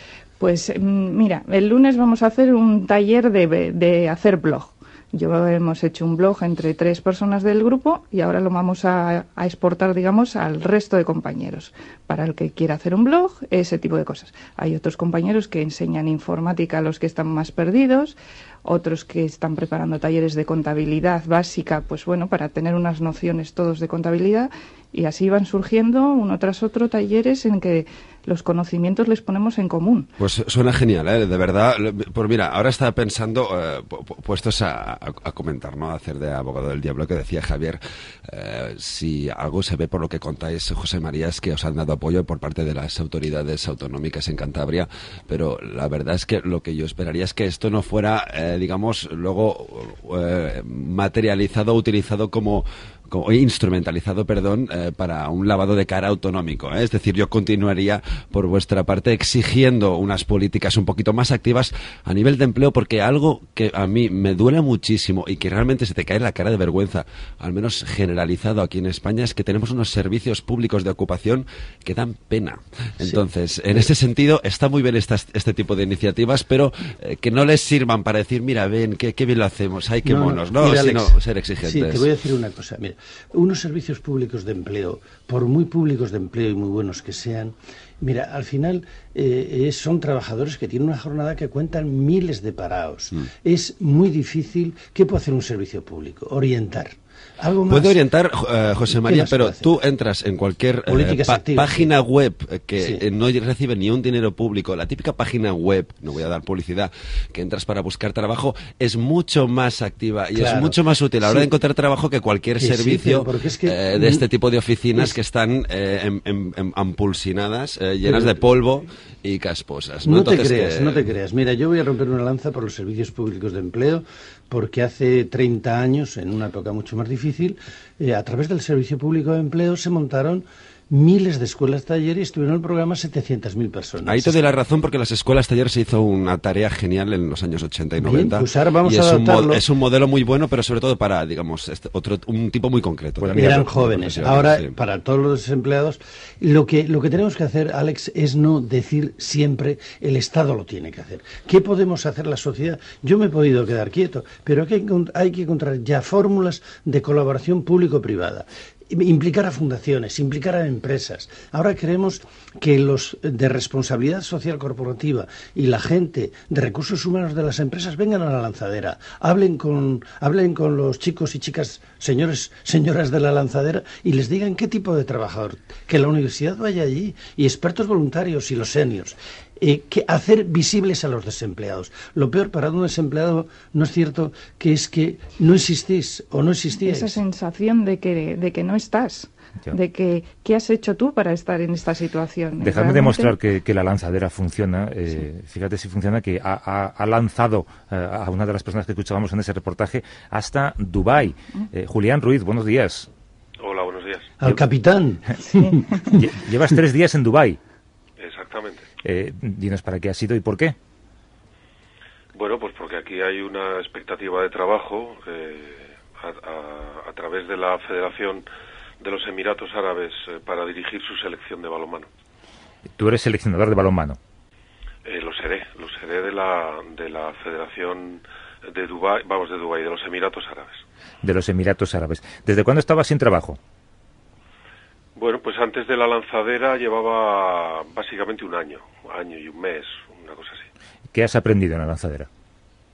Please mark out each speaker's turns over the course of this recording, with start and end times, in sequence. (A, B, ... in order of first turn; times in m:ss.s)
0:00.4-0:30.1 A
0:30.2-1:22.1 B
1:13.0-1:13.9 C
1:20.0-1:38.0 C
1:37.7-2:01.0 B
1:38.9-1:39.6 C
1:40.9-1:41.9 C
1:50.3-1:51.5 C
1:52.6-1:54.2 C
1:58.0-1:58.4 C
2:00.0-2:14.5 C
2:14.0-2:24.7 B
2:18.0-2:19.6 C
2:23.2-2:24.3 D
2:23.3-3:07.2 C
3:06.8-3:13.3 A
3:12.6-3:23.1 D
3:23.6-3:24.3 E
3:24.4-3:26.2 C
3:25.4-3:25.8 A
3:26.0-3:27.6 D
3:28.2-3:28.8 E
3:29.0-3:30.8 D
3:32.3-3:38.4 E
3:39.0-3:42.1 E
3:43.0-3:44.2 D
3:45.0-3:50.8 E
3:51.2-3:53.6 D
3:55.2-4:00.7 E
4:01.1-4:02.3 D